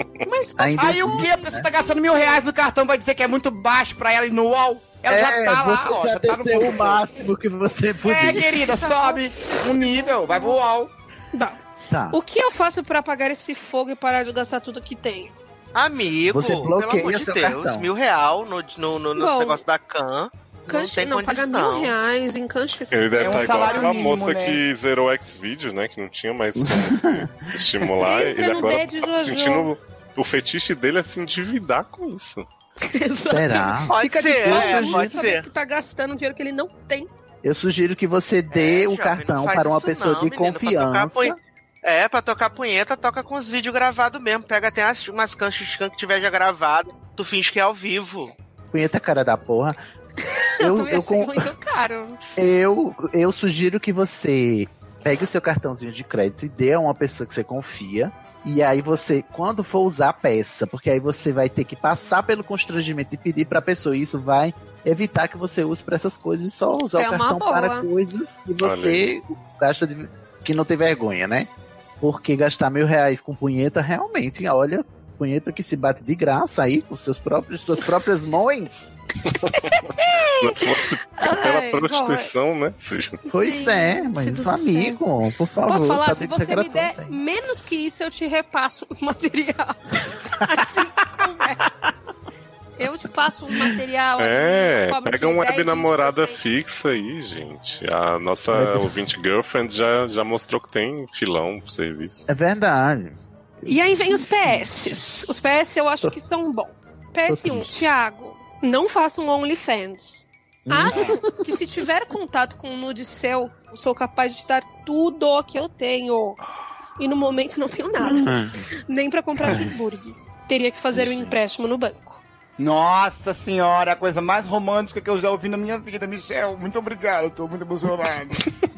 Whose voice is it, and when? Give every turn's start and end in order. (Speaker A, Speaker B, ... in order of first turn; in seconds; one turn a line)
Speaker A: 0.2-2.4
Speaker B: 0.6-1.6
Speaker C: 0.8-7.1
Speaker B: 5.1-8.5
Speaker C: 8.0-10.9
Speaker A: 8.4-10.5
Speaker A: 11.3-11.6
Speaker B: 11.9-12.2
Speaker A: 12.1-15.3
Speaker D: 15.7-21.9
Speaker B: 16.3-17.9
Speaker A: 19.1-19.6
Speaker A: 20.7-24.1
Speaker E: 22.9-32.5
Speaker C: 23.2-24.6
Speaker B: 26.6-27.5
Speaker A: 28.0-29.7
Speaker A: 32.8-37.1
Speaker B: 33.2-35.2
Speaker D: 33.9-35.4
Speaker B: 37.4-41.4
Speaker D: 38.5-48.3
Speaker B: 48.7-49.8
Speaker A: 50.2-52.2
Speaker B: 50.6-51.4
Speaker B: 52.4-71.5
Speaker A: 67.0-67.9
Speaker E: 68.6-69.1
Speaker B: 72.0-79.0
Speaker A: 79.5-82.3
Speaker E: 80.4-83.2
Speaker A: 83.3-85.0
Speaker B: 83.3-87.1
Speaker A: 85.6-91.7
Speaker A: 92.8-96.4
Speaker E: 94.2-102.3
Speaker B: 98.5-98.9
Speaker B: 102.3-105.0
Speaker A: 103.7-116.4
Speaker B: 107.3-107.7
Speaker B: 110.7-111.4
Speaker C: 110.9-111.2
Speaker A: 117.0-122.2
Speaker B: 118.0-118.6
Speaker B: 120.9-121.3
Speaker C: 122.6-128.4